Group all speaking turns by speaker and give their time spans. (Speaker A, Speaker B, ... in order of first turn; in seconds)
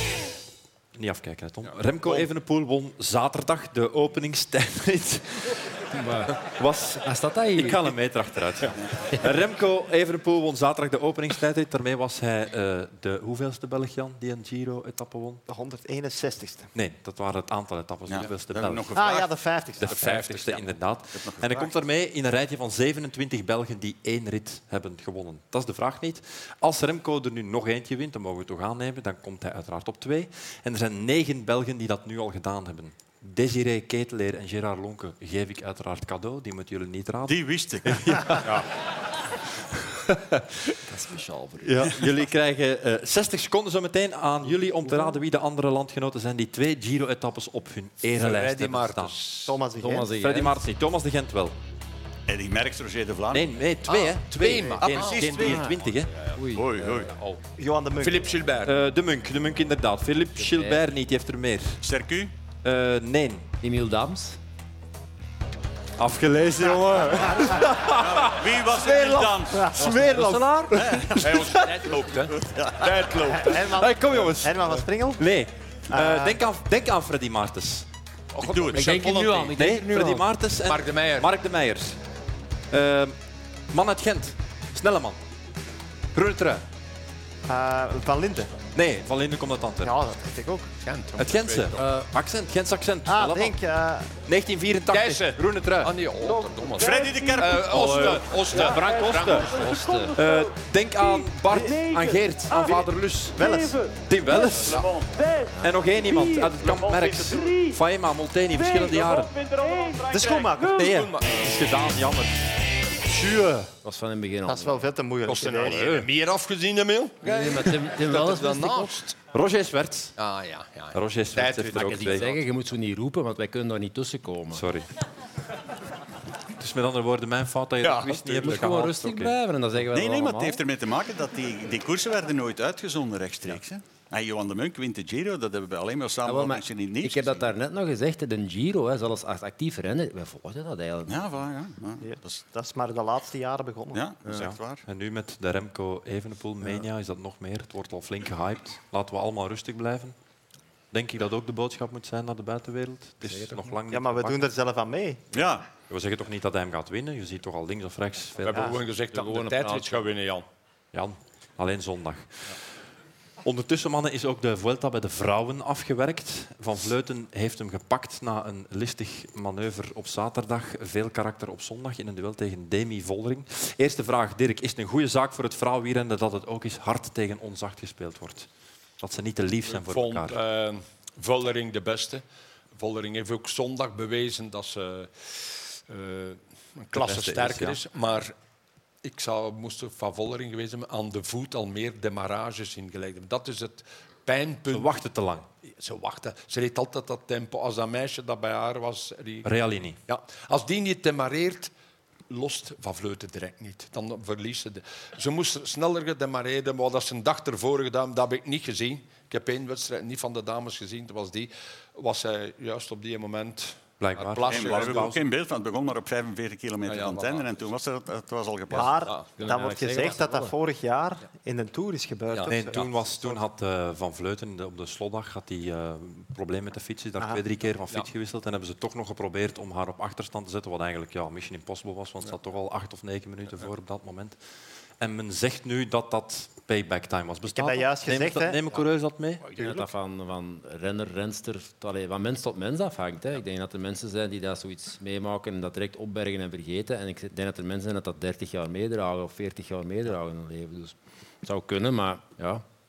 Speaker A: 0.9-5.7, 6.5-15.4, 16.7-18.9, 19.8-38.6, 39.8-40.7, 41.6-49.2, 50.1-51.6, 53.3-56.1, 58.6-61.8, 62.6-63.5, 66.0-72.0, 73.5-77.9, 79.4-82.0, 82.7-83.2, 83.7-85.2, 86.1-86.6, 88.7-89.9, 91.2-93.6, 94.3-95.9, 97.7-99.6, 100.1-103.5, 104.1-104.9, 105.6-109.3, 110.6-112.5, 119.3-120.2, 120.9-122.3, 124.5-124.9, 126.6-129.3, 144.3-150.2, 150.9-154.4, 155.9-158.8, 160.9-162.6, 163.4-178.5, 179.0-180.4, 186.9-187.8, 194.7-195.5, 199.4-200.0, 214.0-215.2, 222.5-234.4, 235.0-239.5
Speaker B: 1.7-2.3, 48.1-49.6, 53.9-55.6, 58.0-58.8, 71.2-73.6, 78.4-79.4, 80.7-81.3, 90.8-91.9, 94.9-99.8, 102.6-102.9, 104.4-104.9, 110.4-111.5, 113.2-113.6, 115.2-119.2, 120.2-122.4, 127.8-128.7, 158.4-160.4, 179.7-182.2, 182.8-188.3, 189.0-195.0, 195.6-199.5, 200.1-201.7, 202.3-215.2, 216.9-217.6, 219.0-219.5, 222.3-222.9
Speaker C: 5.9-6.4, 7.0-7.9, 40.9-41.9, 49.8-50.6, 55.4-55.7, 56.3-57.0, 60.4-60.8, 63.6-64.4, 70.1-70.8, 78.7-80.3, 98.7-100.2, 105.5-105.9, 113.8-114.9, 117.2-119.1, 121.7-124.7, 128.4-130.6, 136.2-141.3, 153.2-153.7, 159.1-160.2, 219.4-220.6, 239.6-252.6
Speaker D: 15.5-16.7, 18.9-20.2, 49.5-50.1, 57.6-58.5, 66.6-67.7, 69.6-70.0, 73.3-75.2, 75.9-76.4, 87.5-88.5, 89.8-90.7, 93.1-94.2, 103.4-103.8, 110.1-110.9, 114.5-116.0, 142.0-144.0, 153.9-155.2, 158.5-158.8, 218.7-223.4, 237.5-238.8
Speaker E: 18.1-19.3, 19.9-20.3, 21.1-21.7, 37.2-38.3, 52.3-53.5, 54.8-55.7, 56.5-57.1, 61.8-62.3, 67.9-69.8, 70.7-71.5, 72.3-73.2, 78.4-79.0, 96.8-98.2, 129.9-137.5, 141.1-142.4, 143.9-144.8, 155.3-155.7, 214.5-219.0